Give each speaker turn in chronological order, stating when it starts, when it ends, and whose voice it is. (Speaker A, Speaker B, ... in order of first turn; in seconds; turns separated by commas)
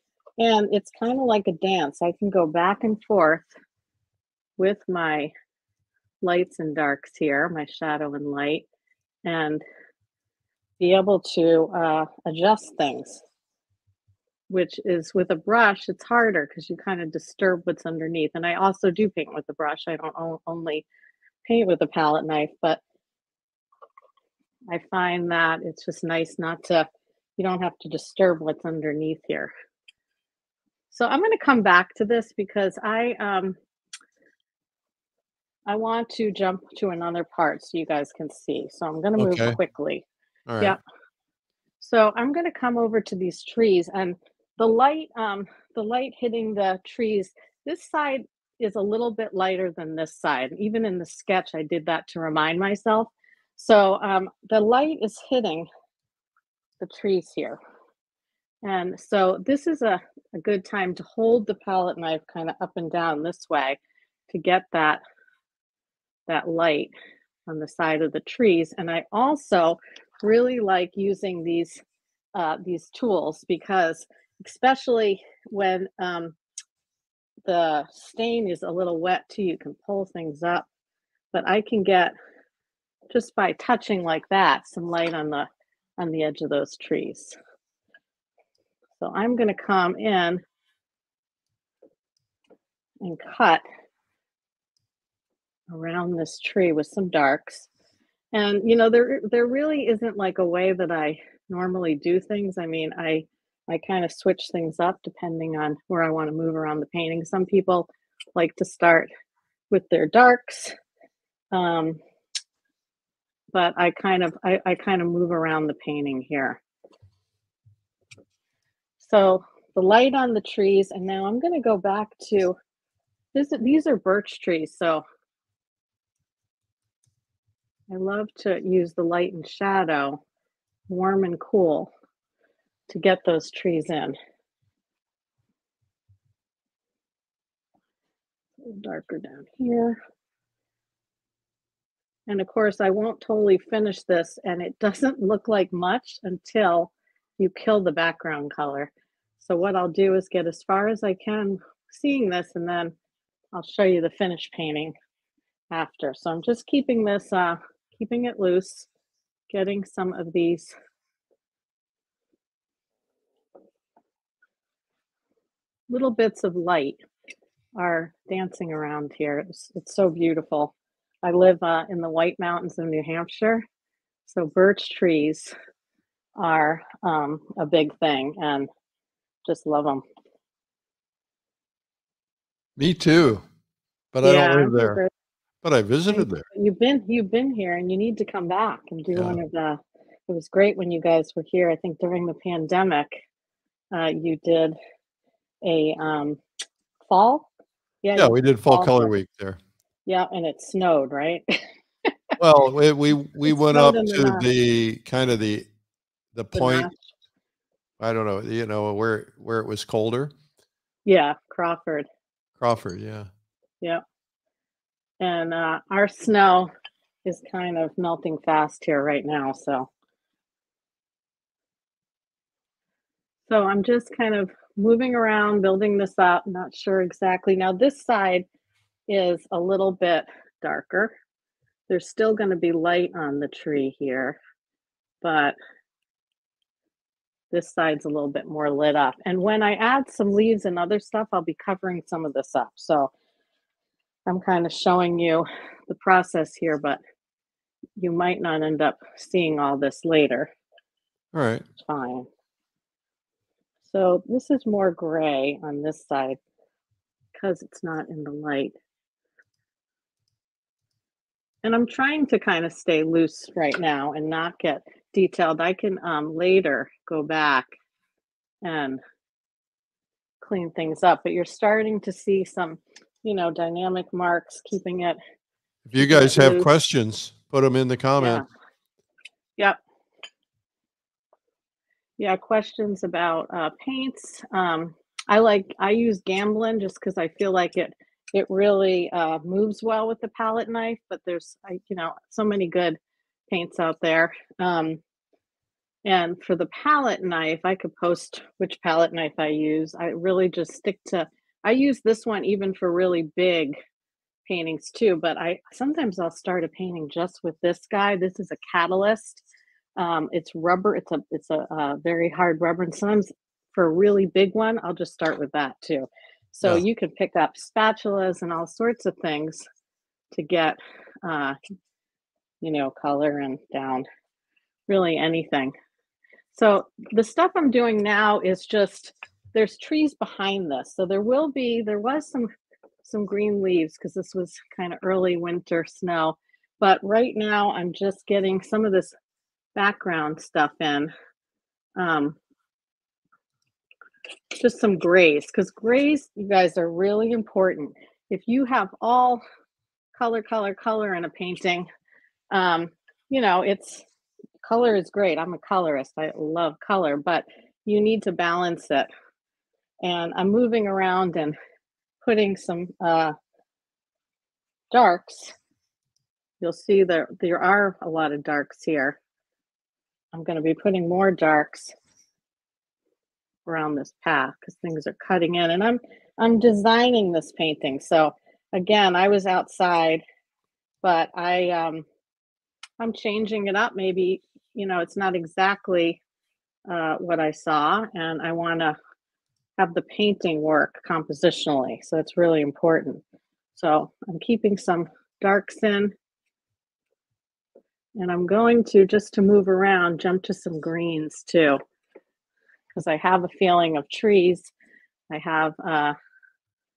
Speaker A: 0.4-3.5, Speaker A: 4.6-5.3, Speaker A: 6.2-8.7, Speaker A: 9.2-9.6, Speaker A: 10.8-13.2, Speaker A: 14.5-20.9, Speaker A: 21.4-22.8, Speaker A: 24.7-29.5, Speaker A: 30.9-33.6, Speaker A: 35.7-40.0, Speaker B: 39.2-39.6, Speaker B: 40.5-40.8, Speaker A: 41.8-55.7, Speaker A: 56.8-57.6, Speaker A: 58.6-65.0, Speaker A: 66.3-66.9, Speaker A: 67.5-71.8, Speaker A: 72.3-76.3, Speaker A: 77.5-80.7, Speaker A: 81.3-82.2, Speaker A: 83.1-87.4, Speaker A: 89.0-90.4, Speaker A: 93.0-93.6, Speaker A: 95.7-97.7, Speaker A: 98.3-109.1, Speaker A: 109.7-110.8, Speaker A: 111.5-112.0, Speaker A: 113.5-116.6, Speaker A: 119.0-122.6, Speaker A: 123.3-125.0, Speaker A: 127.9-130.2, Speaker A: 130.9-131.9, Speaker A: 132.9-134.2, Speaker A: 138.6-140.0, Speaker A: 142.3-152.9, Speaker A: 153.5-154.9, Speaker A: 155.7-158.9, Speaker A: 159.5-160.7, Speaker A: 165.9-167.0, Speaker A: 167.8-173.7, Speaker A: 174.3-175.5, Speaker A: 176.4-178.7, Speaker A: 179.5-180.0, Speaker B: 182.8-183.4, Speaker B: 184.1-185.0, Speaker A: 184.2-185.1, Speaker B: 185.6-186.5, Speaker A: 186.1-193.2, Speaker B: 189.1-189.4, Speaker A: 193.9-194.8, Speaker A: 195.6-196.4, Speaker A: 197.1-197.5, Speaker A: 198.0-199.1, Speaker B: 198.2-199.6, Speaker A: 200.1-202.1, Speaker B: 202.4-205.7, Speaker A: 203.5-204.5, Speaker B: 206.3-206.9, Speaker A: 206.5-207.1, Speaker B: 208.0-210.3, Speaker A: 211.1-212.1, Speaker B: 212.6-213.3, Speaker A: 215.2-216.7, Speaker A: 217.2-219.9, Speaker A: 223.5-228.5, Speaker A: 229.1-231.1, Speaker A: 231.9-234.4, Speaker A: 235.2-235.6, Speaker A: 237.5-243.1, Speaker A: 244.3-247.0, Speaker A: 248.0-250.5, Speaker B: 251.3-251.7, Speaker A: 251.8-252.3, Speaker A: 253.8-256.4, Speaker A: 257.4-258.8, Speaker A: 261.6-267.7, Speaker A: 268.6-269.0, Speaker A: 270.4-275.2, Speaker B: 275.9-278.4, Speaker A: 276.0-276.7, Speaker A: 278.2-278.4, Speaker A: 282.2-293.0, Speaker A: 293.5-295.0, Speaker A: 296.1-303.8, Speaker A: 304.5-309.4, Speaker A: 310.0-319.7, Speaker A: 320.3-321.6, Speaker A: 322.6-324.1, Speaker A: 324.9-325.7, Speaker A: 326.5-332.5, Speaker A: 333.0-339.1, Speaker A: 339.8-341.1, Speaker A: 342.0-342.4, Speaker A: 344.6-349.4, Speaker A: 350.1-351.9, Speaker A: 352.5-354.1, Speaker A: 354.6-359.1, Speaker A: 360.0-361.6, Speaker A: 362.2-363.4, Speaker A: 364.9-365.6, Speaker A: 366.6-369.2, Speaker A: 370.3-371.9, Speaker A: 373.7-380.2, Speaker A: 381.0-382.1, Speaker A: 383.0-386.2, Speaker A: 386.9-389.0, Speaker A: 389.8-393.2, Speaker A: 393.8-396.1, Speaker A: 398.2-401.8, Speaker A: 402.9-404.7, Speaker A: 405.3-406.2